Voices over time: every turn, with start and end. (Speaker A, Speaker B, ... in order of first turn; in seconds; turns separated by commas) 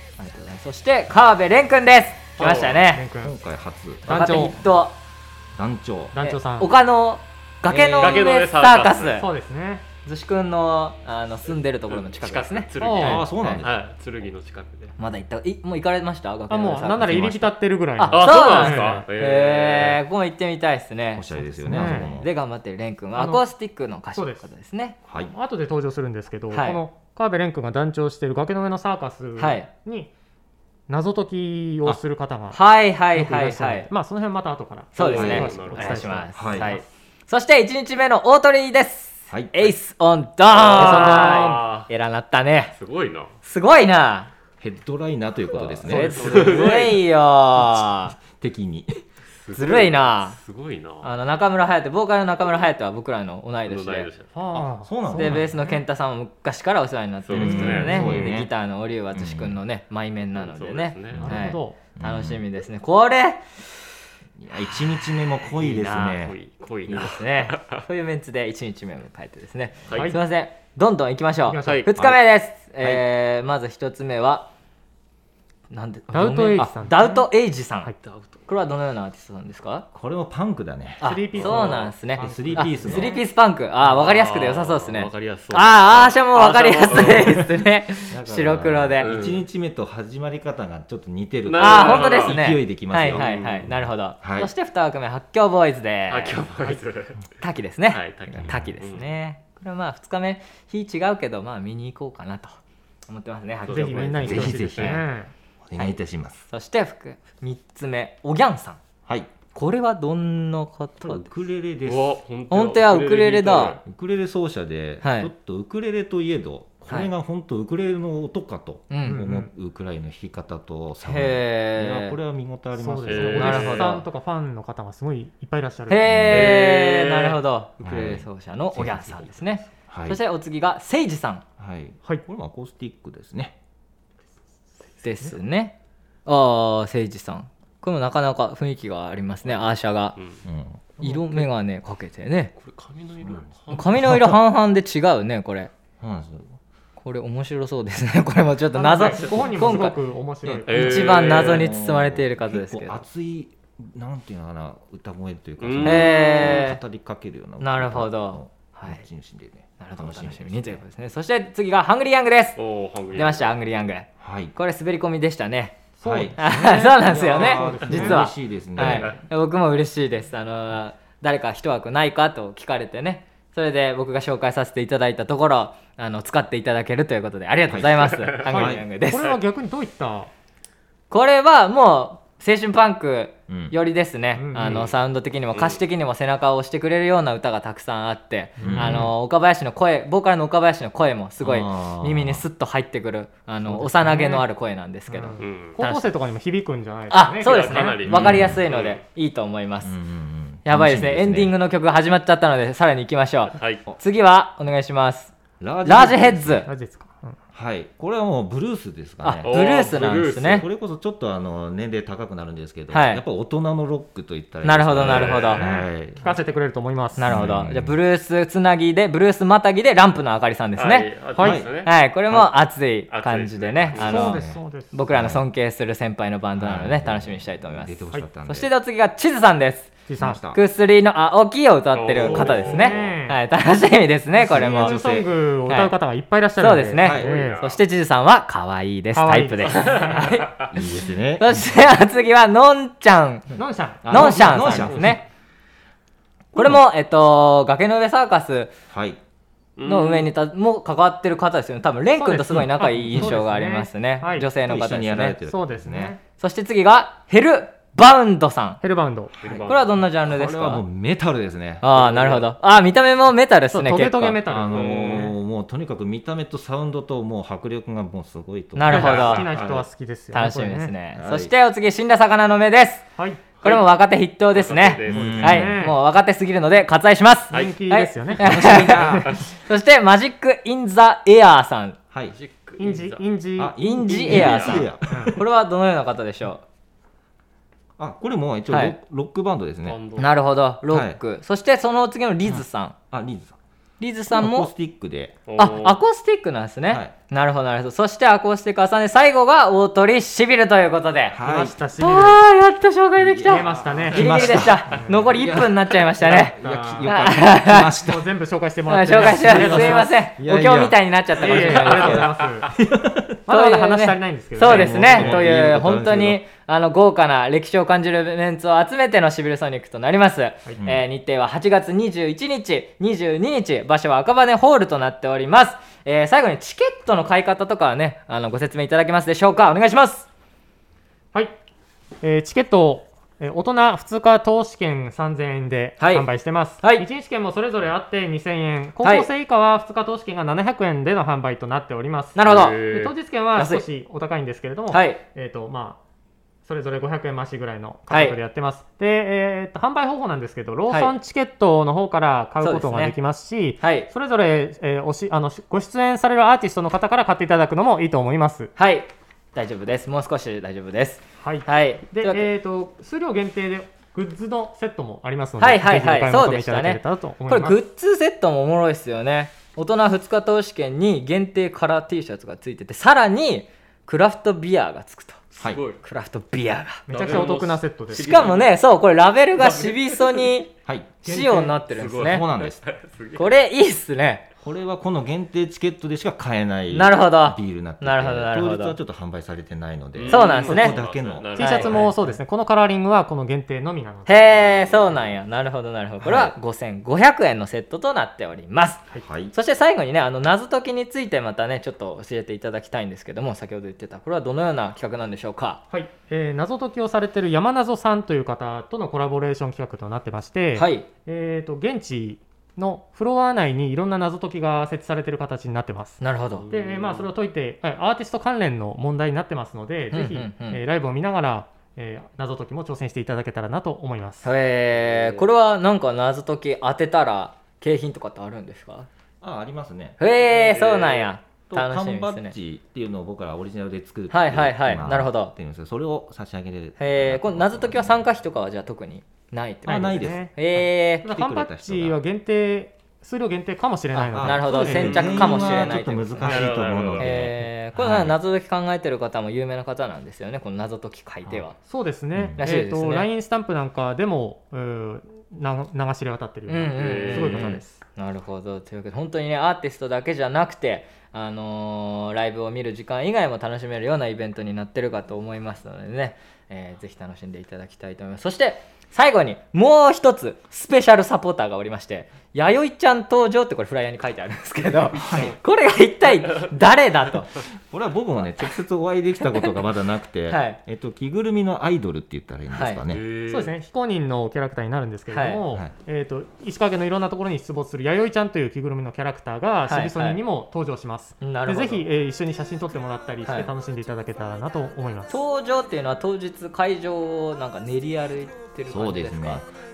Speaker A: 0.2-3.0, Speaker B: 2.4-2.8, Speaker C: 2.8-3.4, Speaker D: 3.2-4.7, Speaker C: 4.1-4.6, Speaker A: 4.1-5.0, Speaker D: 5.6-6.2, Speaker C: 6.1-6.7, Speaker A: 6.2-9.3, Speaker D: 7.7-8.2, Speaker B: 8.0-9.2, Speaker C: 9.2-9.8, Speaker A: 10.1-12.7, Speaker B: 11.9-14.9, Speaker C: 12.8-13.3, Speaker D: 13.0-13.8, Speaker A: 13.4-13.6, Speaker A: 15.0-25.0, Speaker C: 16.5-19.1, Speaker B: 18.1-20.0, Speaker D: 21.1-22.3, Speaker C: 21.6-22.2, Speaker C: 23.1-23.4, Speaker C: 24.1-24.5, Speaker D: 25.1-25.3, Speaker C: 25.3-30.1, Speaker A: 26.5-26.8, Speaker A: 29.4-29.7, Speaker C: 30.9-32.6, Speaker A: 32.5-33.9, Speaker C: 33.1-36.8, Speaker B: 35.0-36.2, Speaker A: 35.0-42.7, Speaker D: 35.1-35.5, Speaker D: 36.3-36.8, Speaker D: 39.3-39.7, Speaker B: 40.5-41.9, Speaker C: 40.7-41.7, Speaker B: 42.7-43.3, Speaker A: 43.4-44.3, Speaker D: 44.6-46.8, Speaker A: 45.7-48.2, Speaker B: 45.8-47.0, Speaker C: 45.9-46.7, Speaker D: 47.6-49.0, Speaker B: 49.4-51.1, Speaker A: 49.5-50.4, Speaker A: 51.0-54.1, Speaker B: 53.7-54.3, Speaker C: 54.4-55.6, Speaker D: 54.5-55.5, Speaker A: 55.1-63.9, Speaker B: 57.2-58.1, Speaker D: 57.3-58.5, Speaker C: 57.7-58.3, Speaker D: 59.1-59.6, Speaker B: 60.4-61.3, Speaker D: 61.1-61.4, Speaker C: 61.2-61.8, Speaker D: 62.0-62.4, Speaker D: 64.4-66.4, Speaker A: 65.6-66.2, Speaker B: 66.0-67.8, Speaker A: 66.9-74.5, Speaker B: 69.9-70.2, Speaker C: 69.9-70.2, Speaker C: 71.5-71.8, Speaker B: 71.6-72.2, Speaker A: 75.7-77.9, Speaker C: 76.1-77.3, Speaker B: 78.0-78.4, Speaker A: 78.5-79.9, Speaker D: 79.9-83.2, Speaker A: 81.0-89.1, Speaker C: 81.0-83.2, Speaker B: 83.8-87.5, Speaker D: 88.1-94.5, Speaker B: 89.0-89.4, Speaker B: 91.5-92.4, Speaker A: 91.6-96.4, Speaker B: 93.1-93.7, Speaker B: 96.1-97.2, Speaker A: 97.4-105.0, Speaker B: 97.9-99.0, Speaker D: 98.4-98.7, Speaker B: 103.7-104.2, Speaker C: 103.7-105.3, Speaker D: 104.2-105.1, Speaker D: 105.7-106.5, Speaker A: 106.5-108.8, Speaker A: 109.5-111.3, Speaker D: 111.0-112.2, Speaker B: 111.8-113.8, Speaker A: 112.5-113.8, Speaker D: 113.9-123.8, Speaker A: 115.0-115.3, Speaker A: 118.9-119.2, Speaker C: 119.1-119.5, Speaker A: 121.0-122.2, Speaker C: 122.8-126.2, Speaker B: 123.0-124.0, Speaker A: 123.4-124.0, Speaker A: 125.9-131.4, Speaker D: 126.0-126.6, Speaker B: 126.3-127.4, Speaker D: 127.8-129.2, Speaker D: 129.9-130.2, Speaker D: 131.6-133.6, Speaker A: 135.0-140.2, Speaker D: 140.4-140.9, Speaker C: 141.0-141.5, Speaker A: 141.0-142.5, Speaker B: 142.6-143.9, Speaker D: 143.2-144.4, Speaker A: 143.7-145.7, Speaker D: 146.0-146.6, Speaker A: 147.0-153.0, Speaker C: 148.7-151.3, Speaker B: 150.7-151.7, Speaker D: 151.2-160.8, Speaker B: 155.6-156.2, Speaker A: 155.8-156.8, Speaker A: 157.6-159.0, Speaker A: 159.8-162.6, Speaker B: 162.6-163.5, Speaker A: 163.1-165.8, Speaker D: 164.2-164.6, Speaker C: 166.0-168.3, Speaker D: 166.0-169.2, Speaker A: 166.4-179.3, Speaker B: 168.8-169.2, Speaker D: 177.7-178.8, Speaker B: 178.2-178.4, Speaker C: 178.5-180.3, Speaker A: 181.1-196.1, Speaker D: 183.5-183.8, Speaker C: 184.3-184.8, Speaker B: 184.6-184.9, Speaker B: 185.5-185.8, Speaker C: 188.6-189.1, Speaker D: 188.6-189.1, Speaker D: 191.4-192.4, Speaker C: 193.7-194.5, Speaker C: 195.1-198.0, Speaker B: 195.4-195.8, Speaker A: 197.1-199.9, Speaker B: 197.4-199.0, Speaker D: 198.1-198.6, Speaker D: 199.8-201.6, Speaker A: 200.7-205.3, Speaker B: 203.5-203.8, Speaker D: 205.6-206.7, Speaker A: 205.8-206.7, Speaker C: 206.7-207.4, Speaker D: 207.5-209.5, Speaker A: 209.2-210.7, Speaker B: 209.4-210.7, Speaker D: 210.4-216.3, Speaker A: 212.9-213.2, Speaker A: 214.6-215.7, Speaker B: 215.0-215.7, Speaker C: 215.6-217.4, Speaker A: 217.2-221.1, Speaker D: 217.3-218.0, Speaker B: 220.8-221.9, Speaker C: 221.4-221.6, Speaker D: 221.4-221.7, Speaker A: 221.8-230.0, Speaker B: 223.1-224.3, Speaker D: 223.9-225.4, Speaker C: 224.0-224.9, Speaker D: 226.6-228.7, Speaker C: 230.1-230.4, Speaker D: 230.2-230.6, Speaker A: 230.5-235.0, Speaker B: 231.9-233.2, Speaker D: 232.2-232.7, Speaker C: 232.3-233.4, Speaker D: 234.4-235.3, Speaker C: 234.5-237.6, Speaker A: 235.7-235.9, Speaker A: 236.6-240.7, Speaker D: 237.0-237.4, Speaker B: 237.1-237.8, Speaker C: 239.1-240.4, Speaker B: 239.7-240.7, Speaker D: 240.7-241.7, Speaker A: 241.4-243.6, Speaker C: 243.6-245.0, Speaker D: 244.0-245.2, Speaker A: 244.1-245.2, Speaker A: 246.5-248.7, Speaker D: 246.6-246.8, Speaker D: 248.9-249.2, Speaker B: 249.8-250.3, Speaker A: 249.8-255.4, Speaker C: 252.2-254.5, Speaker D: 252.6-253.4, Speaker D: 254.6-256.2, Speaker C: 255.5-256.2, Speaker A: 256.4-258.8, Speaker C: 258.8-259.3, Speaker D: 259.4-259.7, Speaker B: 259.4-259.9, Speaker A: 259.7-260.8, Speaker D: 260.2-262.4, Speaker A: 261.8-264.4, Speaker C: 263.7-265.3, Speaker D: 264.5-269.9, Speaker B: 264.7-265.2, Speaker A: 268.8-269.5, Speaker C: 268.9-270.9, Speaker B: 268.9-269.7, Speaker A: 270.3-273.1, Speaker D: 271.2-271.5, Speaker C: 273.2-273.4, Speaker A: 273.6-282.0, Speaker B: 274.5-275.6, Speaker D: 275.0-275.9, Speaker C: 275.4-276.0, Speaker B: 277.5-277.8, Speaker C: 277.5-279.3, Speaker D: 278.4-279.4, Speaker D: 282.1-282.4, Speaker B: 282.3-283.2, Speaker C: 282.8-283.7, Speaker D: 283.6-285.4, Speaker A: 283.8-286.6, Speaker B: 284.3-284.8, Speaker C: 285.1-285.4, Speaker D: 288.0-290.0, Speaker A: 288.7-289.0, Speaker B: 289.9-290.3, Speaker A: 290.2-293.0, Speaker D: 290.9-291.2, Speaker D: 292.5-293.6, Speaker A: 294.0-294.7, Speaker D: 294.3-295.4, Speaker B: 295.5-296.0, Speaker A: 295.6-301.4, Speaker D: 296.9-297.1, Speaker D: 301.3-301.8, Speaker C: 301.4-302.4, Speaker A: 302.0-307.9, Speaker D: 303.2-308.3, Speaker C: 303.5-305.5, Speaker C: 306.2-307.2, Speaker C: 308.0-310.1, Speaker A: 308.9-312.3, Speaker D: 309.1-313.4, Speaker C: 311.4-312.8, Speaker C: 313.5-315.5, Speaker A: 313.5-330.3, Speaker D: 314.6-316.4, Speaker D: 320.8-321.0, Speaker C: 332.2-346.0, Speaker A: 336.0-336.3, Speaker A: 336.8-337.1, Speaker A: 339.0-339.3, Speaker A: 342.4-342.8, Speaker B: 342.4-343.1, Speaker A: 343.6-343.9, Speaker A: 344.9-345.2, Speaker C: 346.6-358.7, Speaker A: 348.1-348.4, Speaker A: 350.9-351.1, Speaker A: 352.6-353.2, Speaker A: 353.8-354.1, Speaker A: 358.8-362.5, Speaker C: 361.4-367.8, Speaker A: 365.6-375.4, Speaker D: 375.6-375.8, Speaker B: 375.6-376.0, Speaker A: 376.0-377.1, Speaker C: 377.1-378.5, Speaker B: 377.1-378.7, Speaker A: 378.2-380.7, Speaker B: 379.6-380.5, Speaker D: 380.9-382.8, Speaker A: 381.2-382.5, Speaker B: 381.9-383.5, Speaker A: 383.4-384.5, Speaker D: 384.6-392.0, Speaker A: 386.9-389.0, Speaker B: 390.1-392.1, Speaker A: 390.3-391.0, Speaker C: 391.6-394.5, Speaker A: 391.6-392.2, Speaker A: 394.3-405.8, Speaker B: 394.6-395.3, Speaker D: 396.2-396.5, Speaker D: 399.2-399.5, Speaker C: 405.9-424.5, Speaker A: 410.8-411.1, Speaker A: 416.2-416.7, Speaker B: 416.5-417.3, Speaker A: 420.1-420.8, Speaker A: 424.4-429.1, Speaker B: 425.0-425.5, Speaker D: 429.4-430.2, Speaker A: 430.2-432.5, Speaker B: 430.4-431.3, Speaker D: 431.7-438.2, Speaker A: 434.3-435.5, Speaker A: 437.0-441.3, Speaker D: 439.9-440.5, Speaker C: 439.9-440.6, Speaker C: 441.2-446.1, Speaker D: 441.2-442.2, Speaker A: 444.1-446.6, Speaker D: 444.3-448.4, Speaker B: 445.0-445.3, Speaker B: 446.4-447.3, Speaker A: 447.2-451.8, Speaker C: 451.8-458.0, Speaker D: 452.4-452.6, Speaker A: 452.6-453.3, Speaker A: 456.7-477.6, Speaker B: 457.0-457.7, Speaker D: 475.1-475.6, Speaker D: 477.9-483.3, Speaker A: 480.5-480.8, Speaker A: 482.7-483.0, Speaker B: 483.1-483.7, Speaker C: 483.5-495.4, Speaker A: 485.3-485.6, Speaker A: 489.9-490.4, Speaker A: 491.4-492.1, Speaker A: 493.4-493.7, Speaker A: 495.3-499.6, Speaker D: 498.9-499.6